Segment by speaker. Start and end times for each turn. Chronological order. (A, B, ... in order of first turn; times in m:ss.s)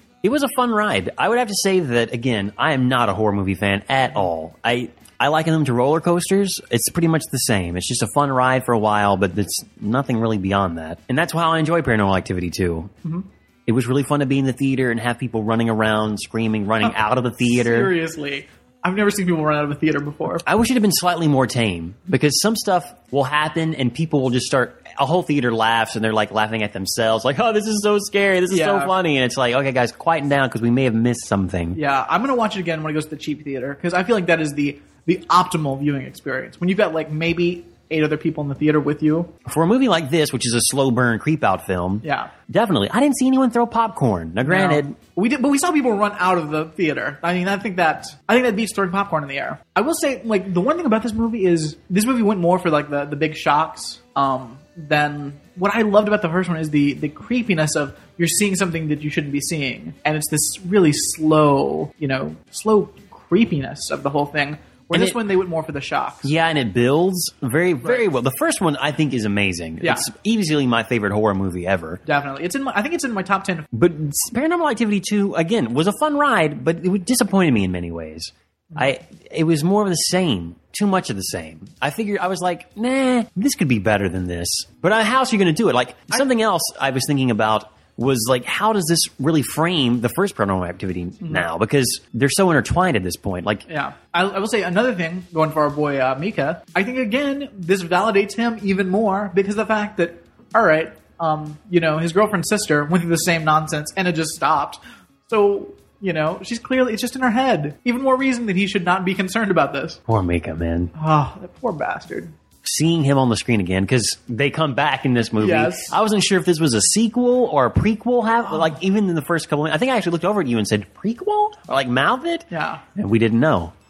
0:00.2-0:12.9 A
0:13.7-0:17.9 A
0:16.8-0:20.4 B
0:20.4-0:31.8 A
0:28.5-0:29.0 B
0:31.7-0:39.3 B
0:39.5-0:45.0 A
0:42.0-0:42.3 B
0:44.4-1:06.3 B
1:04.9-1:05.2 A
1:06.2-1:12.0 A
1:09.8-1:10.1 B
1:12.1-1:13.7 B
1:13.7-1:33.6 A
1:31.2-1:31.5 B
1:33.7-1:50.0 B
1:50.1-1:50.9 A
1:51.0-1:52.3 B
1:52.6-2:03.7 A
1:55.4-1:56.0 B
1:58.5-1:58.8 B
2:02.5-2:02.8 B